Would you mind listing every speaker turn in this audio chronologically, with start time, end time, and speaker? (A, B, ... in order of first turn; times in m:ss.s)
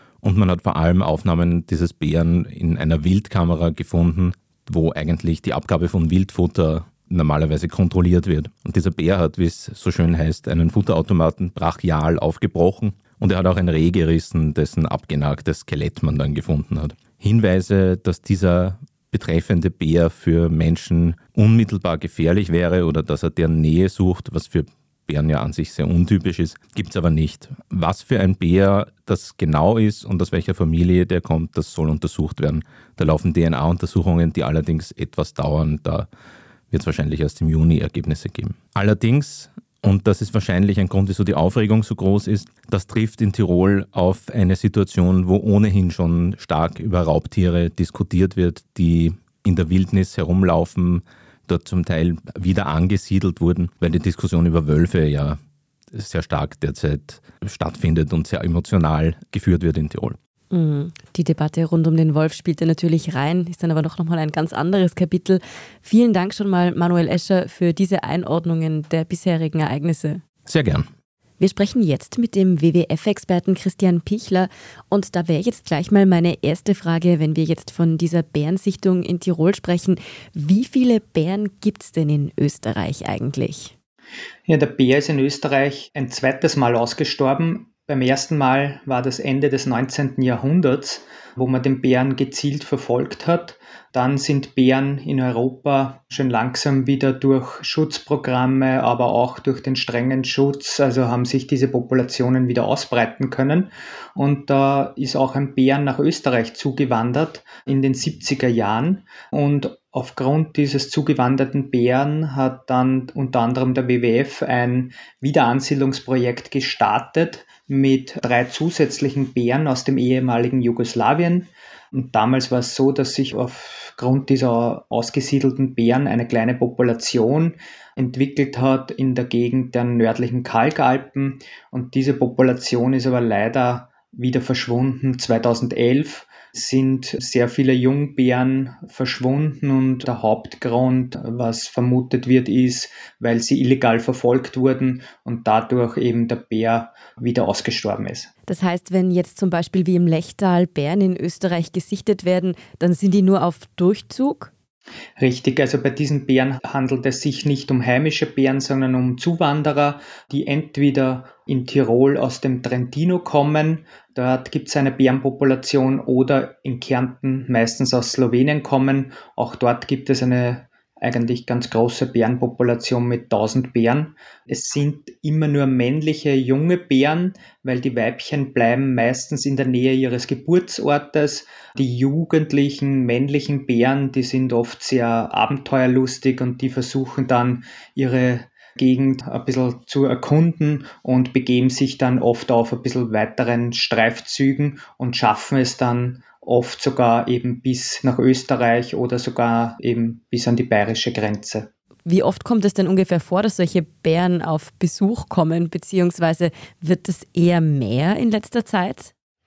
0:00.2-0:36.1 A
0:36.7-0:55.4 A
0:55.9-1:00.2 A
1:00.5-1:10.2 B
1:10.4-1:10.9 A
1:11.4-1:23.7 B
1:24.5-2:28.3 C
2:28.5-2:34.5 B
2:35.2-3:21.7 C
3:22.0-3:29.1 B